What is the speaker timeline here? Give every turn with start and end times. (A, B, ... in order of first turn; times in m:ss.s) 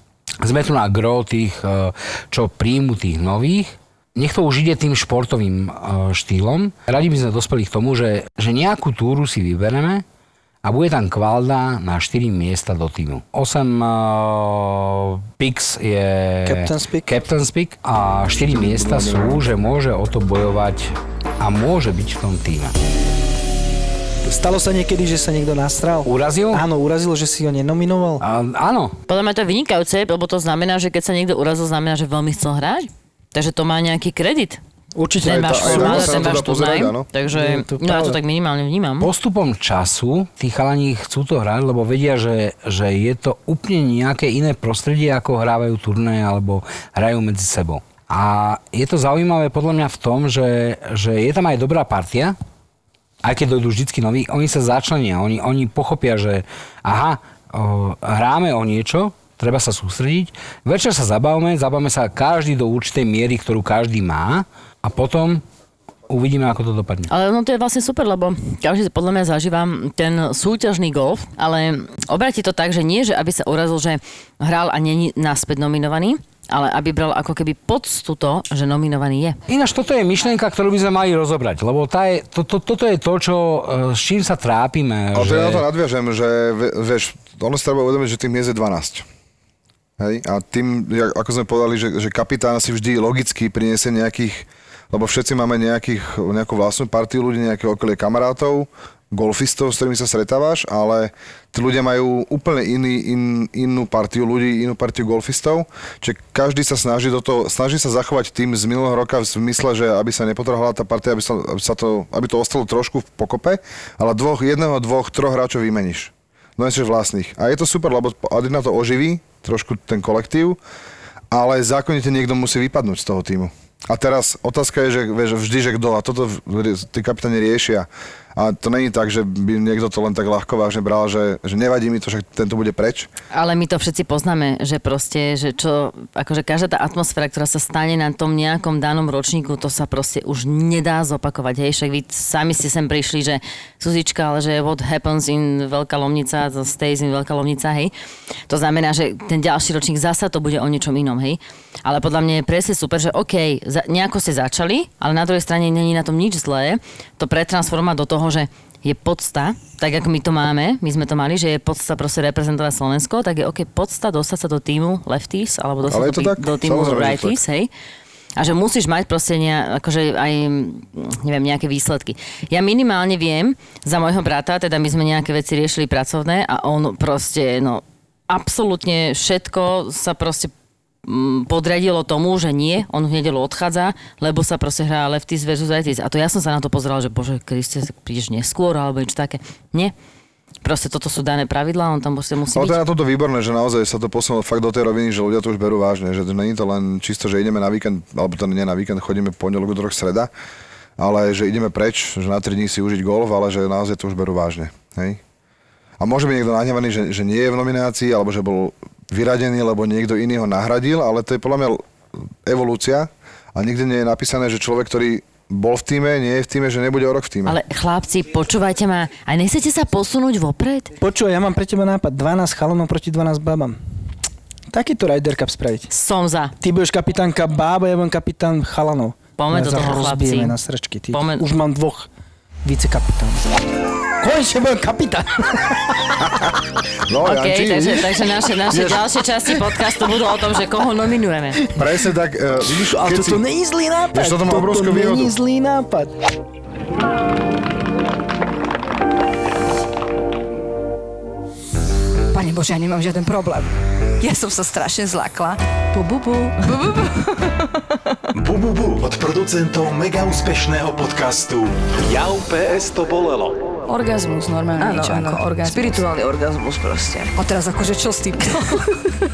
0:00.4-0:10.0 A
0:10.6-0:22.7 A
0:16.4-0:17.1 B
0:18.4-0:19.4 C
0:24.3-0:28.2 B
0:26.0-0:26.6 A
0:28.2-0:29.0 A
0:29.1-0:34.6 D
0:35.0-0:36.4 B
0:35.2-0:37.1 C
0:35.2-0:39.1 D
0:37.3-0:38.2 B
0:39.0-0:52.4 A
0:53.2-1:05.4 A
1:06.1-1:07.1 A
1:07.1-1:19.4 D
1:19.5-1:25.6 A
1:25.1-1:29.0 C
1:30.0-2:00.6 C
2:01.3-2:13.1 C
2:13.3-2:27.9 D
2:28.5-2:47.7 D
2:45.9-2:47.4 C
2:48.4-3:00.5 D
3:01.0-3:09.9 D
3:10.6-3:12.8 D
3:12.5-3:20.3 C
3:21.0-3:25.2 C
3:26.0-3:31.8 C
3:32.4-3:37.6 C
3:37.5-3:40.9 D
3:41.0-3:43.8 B
3:44.7-3:45.9 B
3:45.9-3:46.5 D
3:46.6-3:52.1 B
3:49.4-3:50.6 D
3:51.1-3:51.4 D
3:52.6-3:53.4 B
3:54.2-3:56.2 B
3:57.1-3:58.2 C
3:57.2-4:01.6 D
4:01.7-4:03.4 C
4:02.7-4:06.1 B
4:04.1-4:05.3 C
4:12.3-4:17.3 E
4:18.3-4:23.7 F
4:23.9-4:26.0 E
4:24.8-4:27.3 G
4:27.3-4:29.1 E